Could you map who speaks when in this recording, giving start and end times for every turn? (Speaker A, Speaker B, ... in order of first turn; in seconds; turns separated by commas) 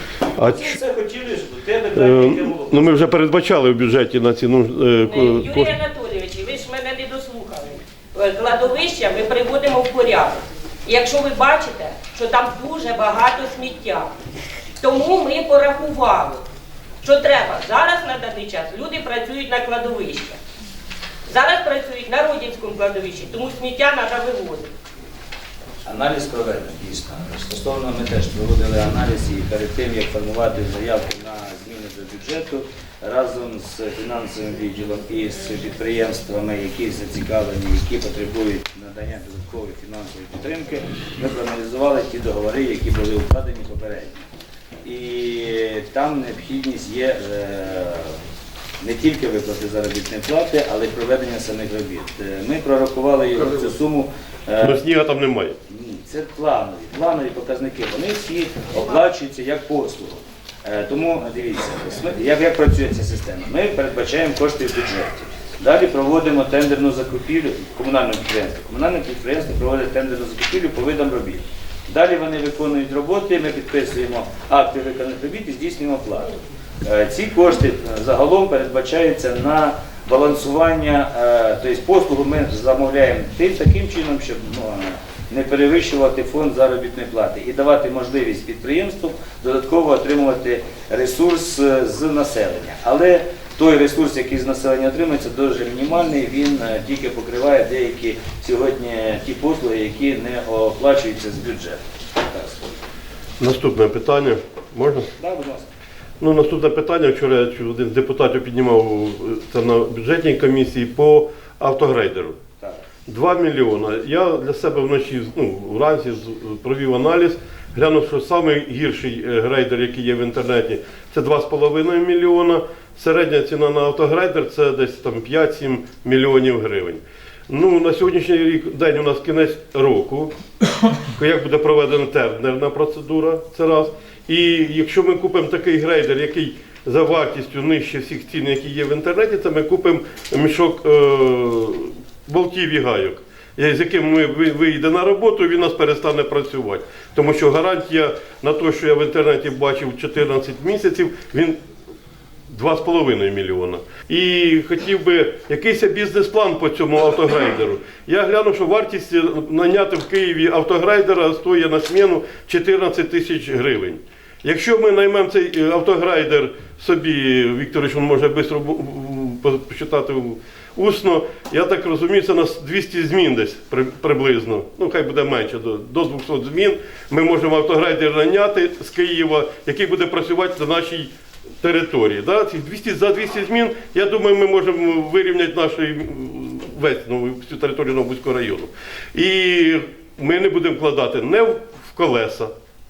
Speaker A: 0.3-3.0, Speaker B: 0.4-0.8, Speaker B: 1.9-5.7, Speaker C: 5.1-14.1, Speaker C: 14.8-16.4, Speaker C: 17.0-20.4, Speaker C: 21.3-24.7, Speaker A: 25.9-44.3, Speaker A: 44.9-48.2, Speaker A: 48.8-54.8, Speaker B: 54.6-55.6, Speaker A: 55.7-102.8, Speaker B: 103.4-105.1, Speaker A: 105.2-105.7, Speaker B: 106.2-112.4, Speaker B: 113.1-130.3, Speaker B: 131.2-151.6, Speaker B: 152.5-192.5